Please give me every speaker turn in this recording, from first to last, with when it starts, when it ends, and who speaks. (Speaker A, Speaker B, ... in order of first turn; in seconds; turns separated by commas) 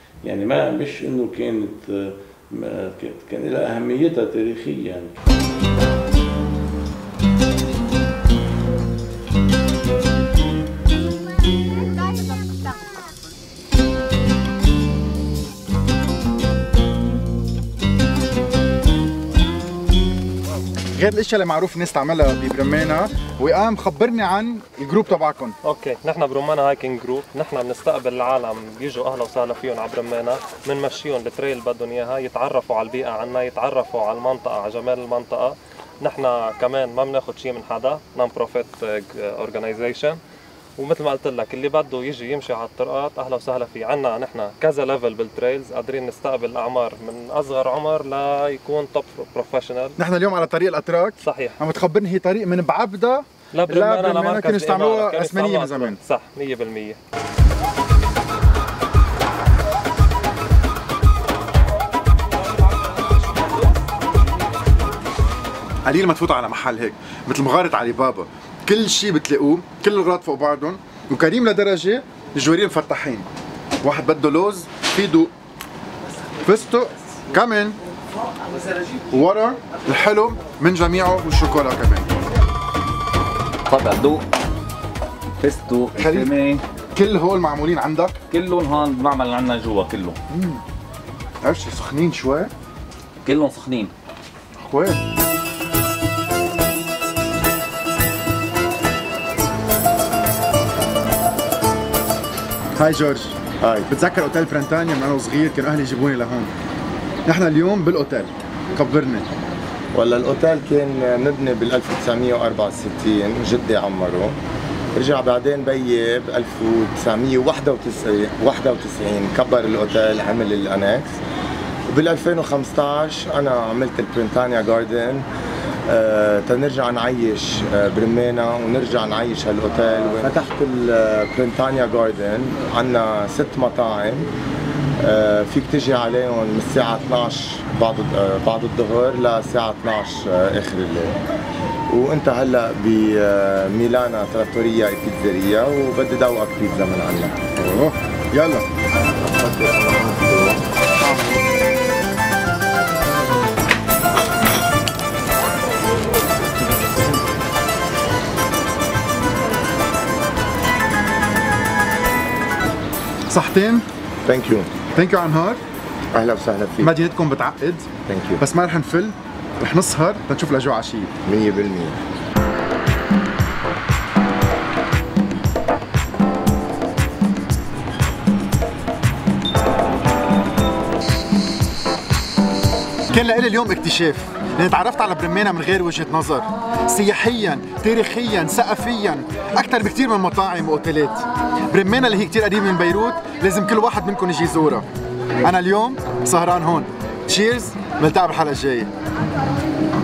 Speaker A: 0.2-5.1, Speaker B: 20.9-25.6, Speaker C: 25.6-40.2, Speaker C: 40.8-50.0, Speaker B: 50.0-56.0, Speaker C: 51.2-51.6, Speaker C: 53.5-57.0, Speaker B: 65.8-73.3, Speaker B: 73.8-75.3, Speaker B: 76.4-77.8, Speaker B: 79.1-82.1, Speaker D: 83.7-84.2, Speaker D: 85.4-86.5, Speaker B: 86.0-86.3, Speaker B: 86.9-88.1, Speaker D: 88.3-90.1, Speaker B: 90.3-90.6, Speaker B: 91.4-92.5, Speaker D: 93.2-93.9, Speaker B: 94.6-95.0, Speaker B: 102.8-106.5, Speaker E: 103.6-103.9, Speaker B: 107.2-109.3, Speaker E: 109.9-114.3, Speaker E: 115.0-121.2, Speaker E: 121.9-125.2, Speaker E: 125.9-134.3, Speaker E: 135.0-141.2, Speaker E: 141.9-147.4, Speaker B: 147.5-148.7, Speaker E: 149.2-150.6, Speaker B: 163.3-163.8, Speaker E: 164.2-164.8, Speaker B: 164.9-165.6, Speaker E: 166.1-166.9, Speaker B: 166.8-171.1, Speaker E: 168.1-168.4, Speaker E: 171.2-172.0, Speaker B: 183.1-194.9, Speaker B: 195.4-198.9